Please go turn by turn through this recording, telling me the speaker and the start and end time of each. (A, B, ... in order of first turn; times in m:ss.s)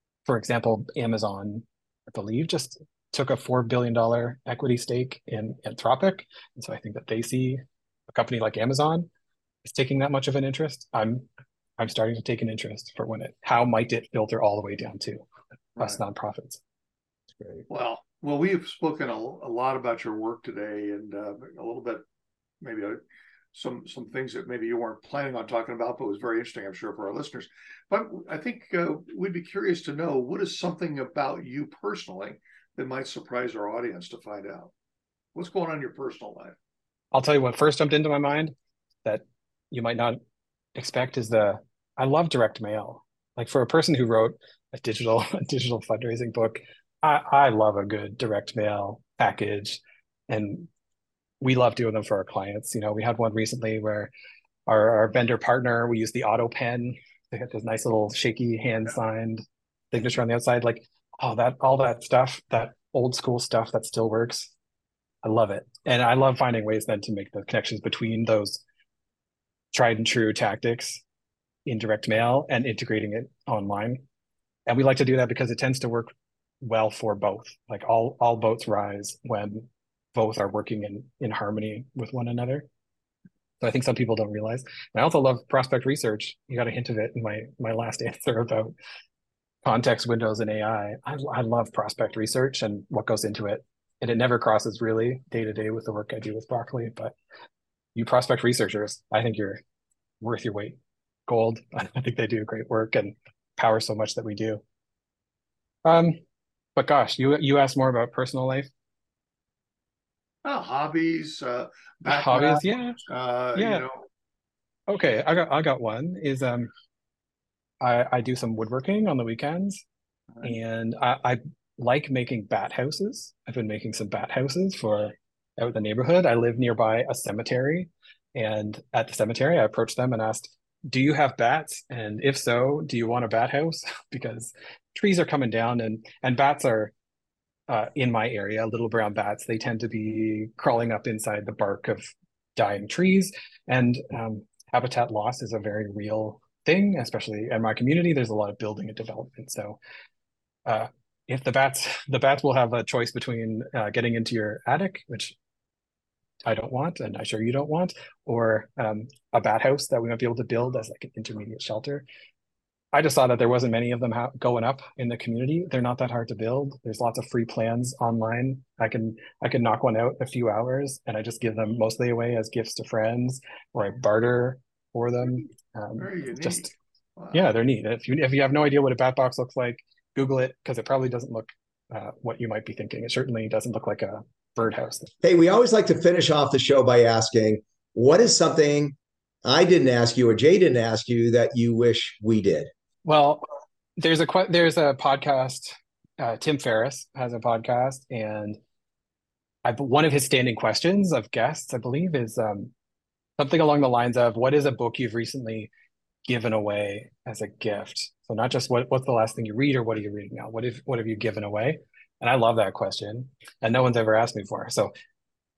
0:00.3-0:09.1 A
0:09.7-0:11.3 A
0:11.8-0:15.2 A
0:15.8-0:16.6 A
0:17.7-0:22.0 B
0:22.6-0:23.0 B
0:23.5-0:34.7 B
0:35.4-0:36.6 B
0:37.1-0:38.5 A
0:39.0-0:40.2 A
0:40.8-0:50.7 A
0:51.4-0:54.1 A
0:54.7-1:04.5 A
1:05.2-1:08.6 A
1:09.7-1:11.0 A
1:11.7-1:14.0 A
1:14.7-1:22.7 A
1:23.6-1:28.7 A
1:29.6-1:37.1 A
1:38.0-1:39.6 A
1:40.2-1:44.6 A
1:45.8-1:46.2 A
1:46.8-1:48.7 A
1:50.4-1:54.0 B
1:52.1-1:53.0 A
1:53.6-1:53.9 A
1:54.9-1:56.7 A
1:57.8-1:59.8 A
2:00.4-2:16.9 A
2:17.7-2:29.8 A
2:30.7-2:35.4 A
2:36.4-2:42.0 A
2:42.9-2:56.7 A
2:56.0-2:57.4 B
2:57.3-3:05.1 A
3:05.2-3:12.7 C
3:13.0-3:18.6 A
3:19.6-3:22.7 A
3:23.4-3:25.7 A
3:26.3-3:34.9 A